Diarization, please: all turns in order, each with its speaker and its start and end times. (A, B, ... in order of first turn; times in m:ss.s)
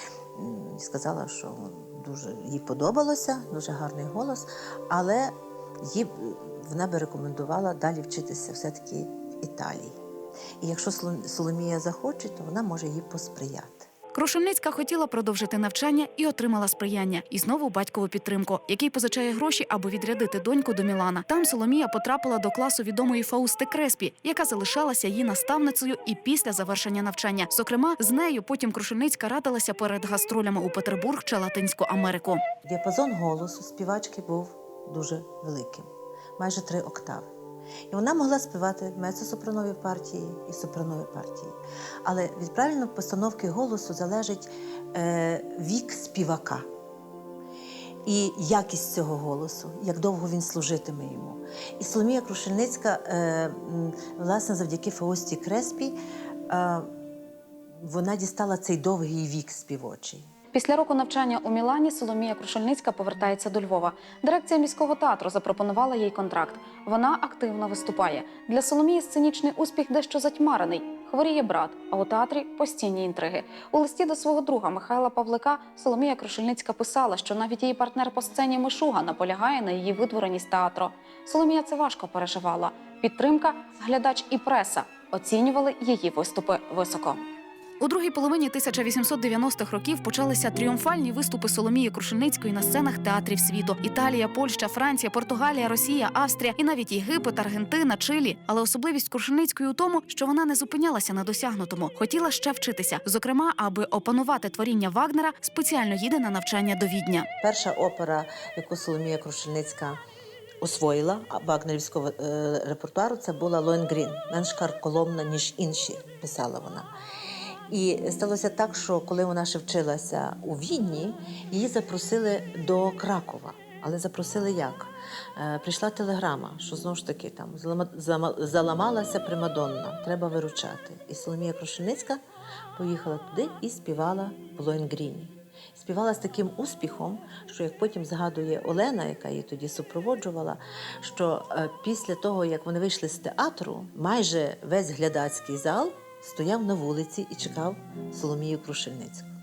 0:00.3-0:10.0 A
0:10.6-0:13.9 A
0:14.1-0:32.4 B
0:32.6-0:37.3 A
0:37.9-0:46.7 A
0:48.1-0:56.0 A
0:56.5-0:56.9 A
0:57.8-1:00.3 A
1:00.5-1:27.2 C
1:27.8-1:47.3 B
1:47.4-1:50.0 A
1:50.6-1:56.9 A
1:57.7-2:12.2 A
2:12.8-2:29.3 A